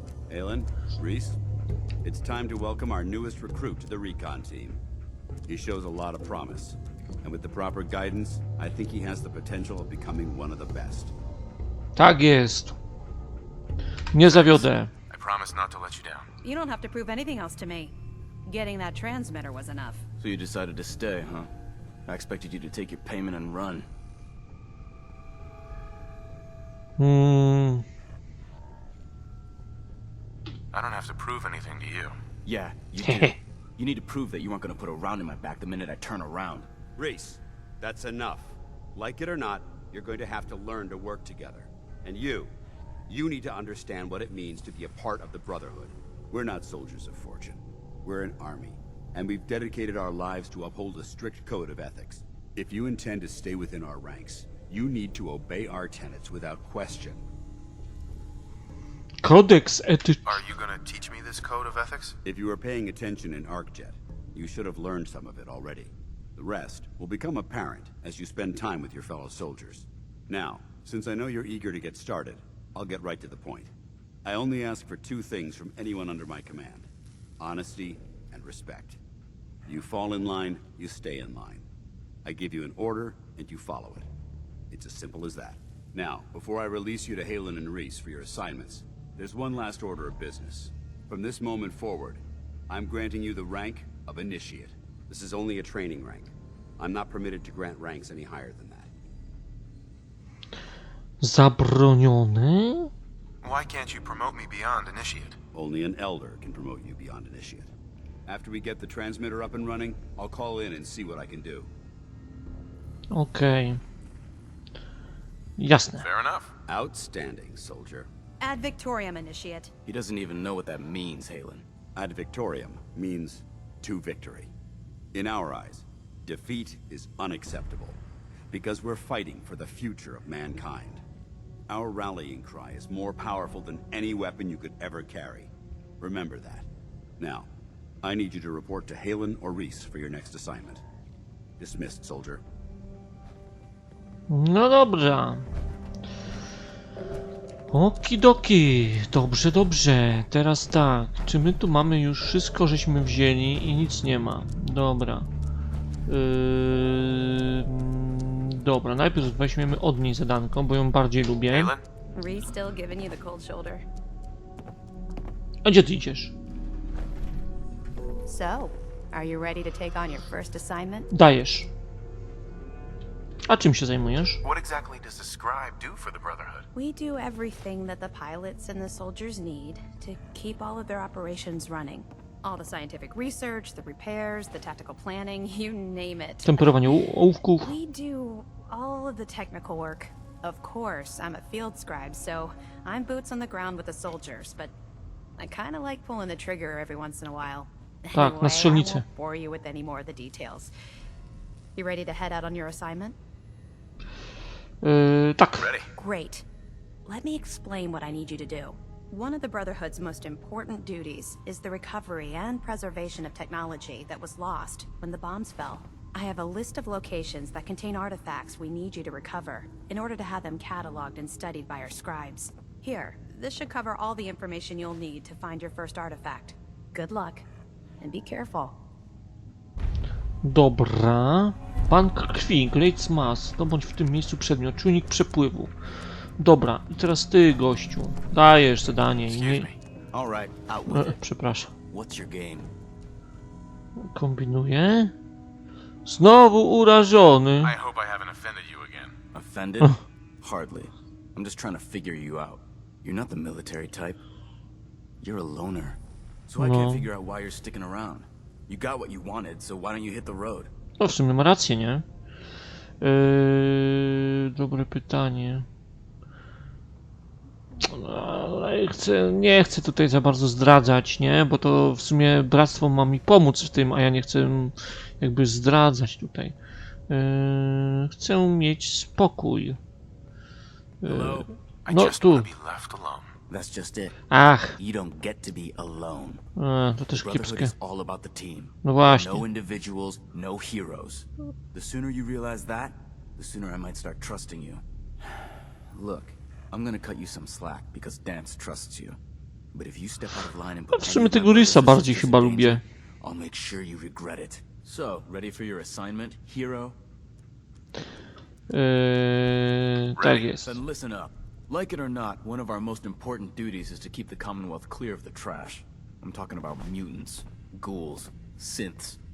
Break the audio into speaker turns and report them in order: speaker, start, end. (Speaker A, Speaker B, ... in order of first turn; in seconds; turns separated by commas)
Speaker A: 0.3-1.4, Speaker A: 2.0-4.8, Speaker A: 5.5-11.1, Speaker B: 11.9-12.7, Speaker B: 14.1-14.9, Speaker C: 14.2-16.2, Speaker D: 16.4-17.9, Speaker D: 18.4-20.0, Speaker E: 20.2-21.5, Speaker E: 22.1-23.9, Speaker B: 27.0-27.8, Speaker C: 30.7-32.2, Speaker E: 32.4-36.7, Speaker B: 33.0-33.4, Speaker A: 37.0-42.5, Speaker A: 43.1-57.2, Speaker B: 59.2-60.4, Speaker C: 60.3-62.1, Speaker A: 62.2-73.7, Speaker A: 74.2-76.9, Speaker A: 77.4-79.0, Speaker A: 79.7-81.7, Speaker A: 82.2-84.1, Speaker A: 84.7-98.9, Speaker B: 101.2-102.9, Speaker C: 103.4-105.3, Speaker A: 105.5-107.7, Speaker A: 108.3-111.7, Speaker B: 113.1-113.8, Speaker B: 115.6-116.1, Speaker C: 116.0-116.5, Speaker A: 116.7-118.1, Speaker D: 118.4-119.7, Speaker E: 119.8-121.6, Speaker A: 122.0-124.5, Speaker A: 125.1-128.0, Speaker A: 128.5-131.0, Speaker A: 131.7-136.7, Speaker A: 137.2-137.5, Speaker A: 138.0-140.8, Speaker A: 141.6-142.4, Speaker B: 144.3-145.5, Speaker B: 147.7-155.3, Speaker B: 156.1-161.7, Speaker C: 161.5-161.8, Speaker D: 162.2-163.8, Speaker B: 165.6-166.3, Speaker D: 168.2-171.1, Speaker B: 171.1-171.7, Speaker B: 173.5-174.4, Speaker C: 174.4-176.7, Speaker D: 176.7-186.6, Speaker B: 186.4-187.7, Speaker D: 187.6-194.7, Speaker D: 195.4-200.7, Speaker B: 198.1-199.0, Speaker D: 201.8-203.2, Speaker B: 204.8-205.7, Speaker E: 205.6-205.9, Speaker D: 206.0-206.4, Speaker D: 207.1-227.4, Speaker D: 228.0-228.8, Speaker B: 230.4-235.7, Speaker B: 236.4-239.7, Speaker C: 239.2-239.8, Speaker E: 240.1-241.2, Speaker B: 240.9-241.7, Speaker E: 241.9-242.7, Speaker B: 244.0-245.1, Speaker B: 246.1-247.7, Speaker C: 247.6-249.2, Speaker E: 249.3-254.2, Speaker E: 255.2-260.7, Speaker B: 256.6-257.1, Speaker B: 261.0-262.0, Speaker B: 263.0-265.7, Speaker B: 267.8-276.5, Speaker B: 277.1-279.8, Speaker B: 281.0-282.5, Speaker E: 281.0-281.5, Speaker C: 281.8-283.3, Speaker E: 283.5-284.1, Speaker B: 284.3-284.8, Speaker E: 284.8-286.4, Speaker B: 286.6-287.7, Speaker E: 287.1-294.8, Speaker B: 288.8-289.4, Speaker E: 295.9-299.2, Speaker E: 299.7-306.9, Speaker B: 300.9-302.8, Speaker B: 308.7-310.8, Speaker E: 310.1-319.2